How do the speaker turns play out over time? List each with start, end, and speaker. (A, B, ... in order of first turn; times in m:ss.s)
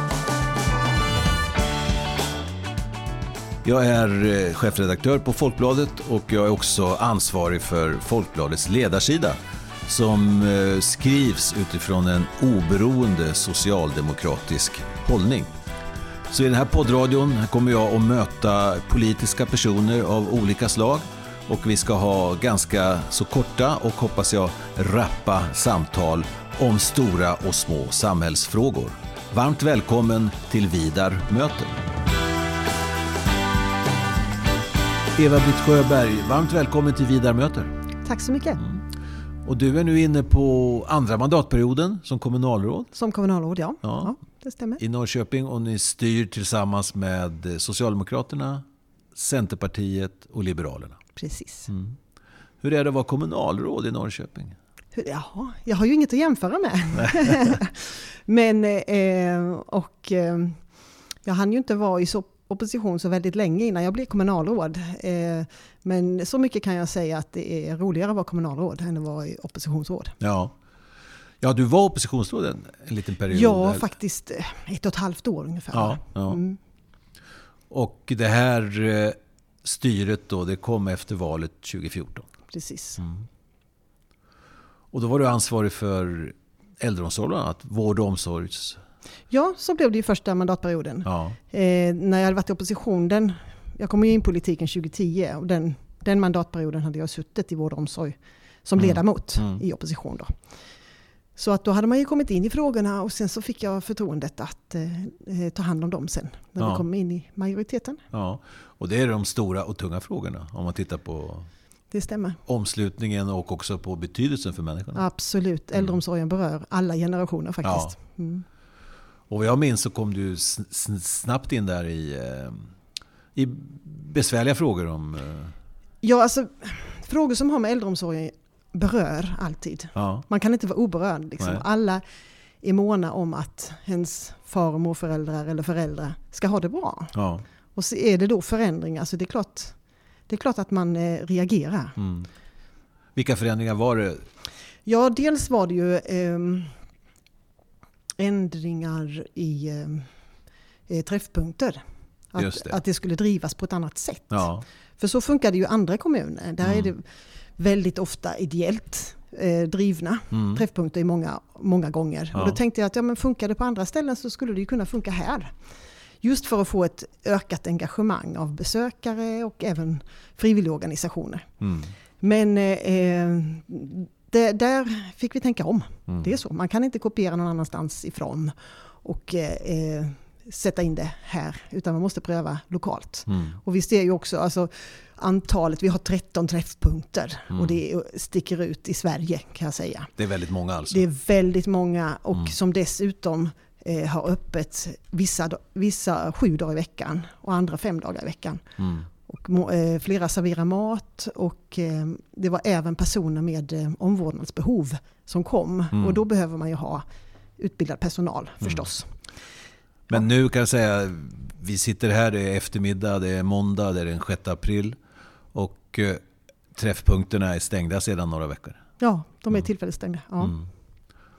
0:03.6-0:15.5 A
0:16.3-0:31.8 A
0:35.2-0:37.7 A
0:38.0-0:38.6 B
0:39.4-0:42.9 A
0:42.9-0:44.8 B
0:43.8-0:44.1 A
0:44.8-0:51.0 A
0:51.2-0:51.7 B
0:51.7-0:52.0 A
0:52.6-0:54.6 A
0:54.9-1:00.7 B
1:01.2-1:10.2 B
1:10.2-1:10.5 A
1:11.4-1:13.9 A
1:13.3-1:16.6 B
1:15.7-1:16.4 A
1:17.7-1:22.3 A
1:22.5-1:23.0 B
1:23.0-1:23.2 A
1:24.9-1:28.8 A
1:29.3-1:40.4 B
1:31.0-1:31.4 A
1:38.8-1:39.6 A
1:41.4-1:48.0 B
1:48.1-1:51.5 A
1:51.9-1:52.4 B
1:52.5-1:55.0 A
1:54.9-1:58.4 B
1:57.6-1:57.9 A
1:59.3-2:02.7 A
2:03.4-2:05.6 A
2:06.0-2:12.0 B
2:09.9-2:10.2 A
2:12.6-2:17.1 B
2:17.1-2:17.4 A
2:17.7-2:19.8 B
2:20.3-2:22.0 B
2:22.0-2:22.3 A
2:23.1-2:24.2 A
2:24.8-2:26.8 B
2:28.2-2:30.1 B
2:30.9-2:45.6 B
2:32.4-2:32.8 A
2:34.3-2:34.6 A
2:36.6-2:36.9 A
2:40.3-2:40.6 A
2:46.2-2:51.5 B
2:51.6-2:51.9 A
2:52.2-3:10.1 B
3:03.3-3:03.6 A
3:07.5-3:07.8 A
3:10.2-3:11.0 A
3:10.9-3:27.0 B
3:18.8-3:19.1 A
3:27.6-3:29.2 B
3:30.1-3:35.0 A
3:35.5-3:36.2 A
3:36.7-3:38.8 A
3:39.0-3:40.6 B